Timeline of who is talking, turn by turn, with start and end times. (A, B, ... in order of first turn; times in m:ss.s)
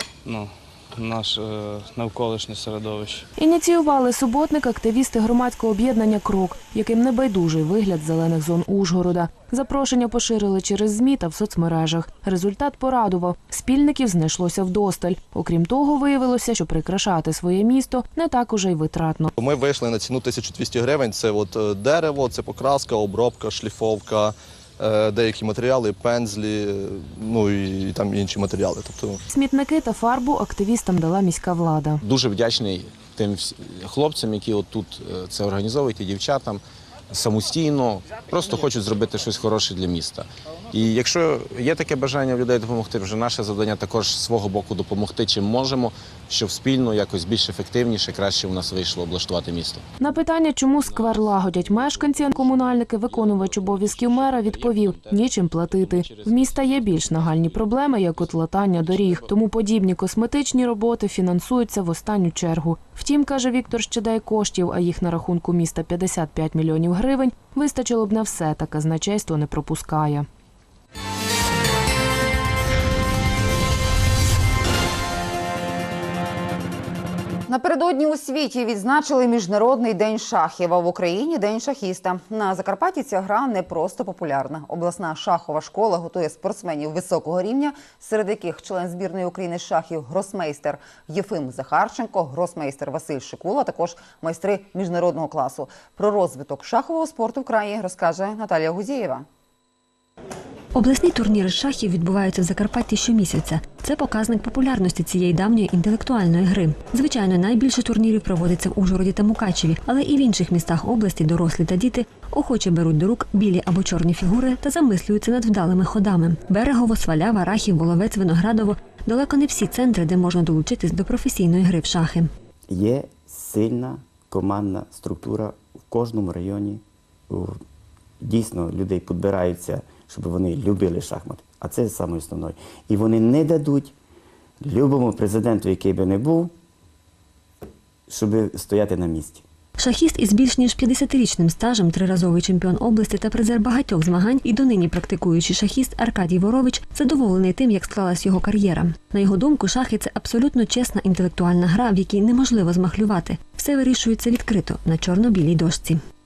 0:00.2-0:03.2 A
0:03.4-0:19.3 B
0:19.4-0:29.2 C
0:29.3-0:32.0 B
0:32.0-0:49.8 D
0:50.0-1:10.3 B
0:51.1-0:58.2 D
0:58.7-0:59.0 D
1:17.5-1:39.3 E
1:40.8-2:02.3 F
2:02.7-2:07.6 G
2:08.2-2:13.9 G
2:14.6-2:16.5 G
2:18.1-2:19.4 G
2:19.8-2:36.0 F